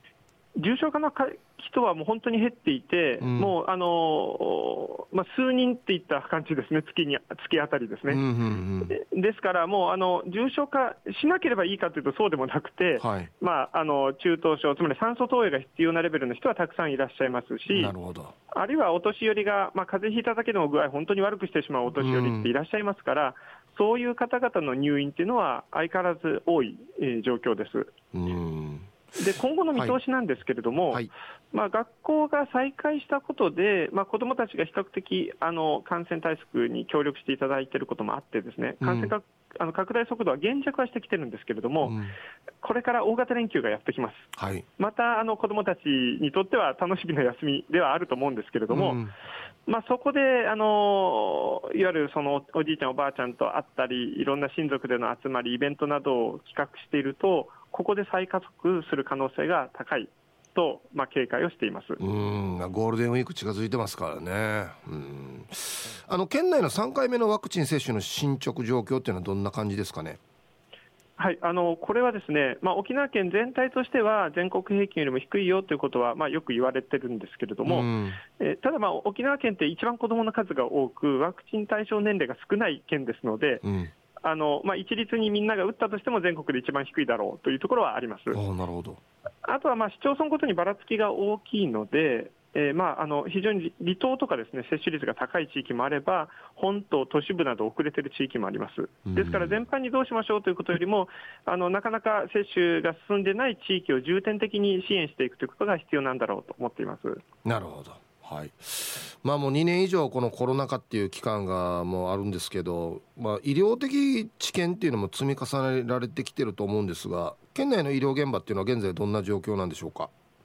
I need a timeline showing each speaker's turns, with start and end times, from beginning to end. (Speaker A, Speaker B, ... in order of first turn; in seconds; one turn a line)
Speaker A: 0.6-8.2
Speaker B: 3.2-3.5
Speaker B: 8.1-9.0
Speaker A: 8.9-17.9
Speaker B: 13.0-13.3
Speaker B: 17.7-18.3
Speaker A: 18.5-27.9
Speaker B: 22.0-22.5
Speaker B: 28.1-28.9
Speaker A: 29.2-42.0
Speaker B: 38.8-39.1
Speaker B: 41.8-42.1
Speaker A: 42.6-44.3
Speaker B: 44.4-44.7
Speaker A: 44.8-49.0
Speaker B: 48.7-49.1
Speaker A: 49.7-62.0
Speaker B: 62.0-70.2
Speaker A: 71.2-83.6
Speaker B: 77.7-78.2
Speaker B: 83.6-83.9
Speaker A: 84.2-88.4
Speaker B: 88.3-89.0
Speaker A: 89.5-107.2
Speaker B: 99.1-99.6
Speaker B: 107.5-120.1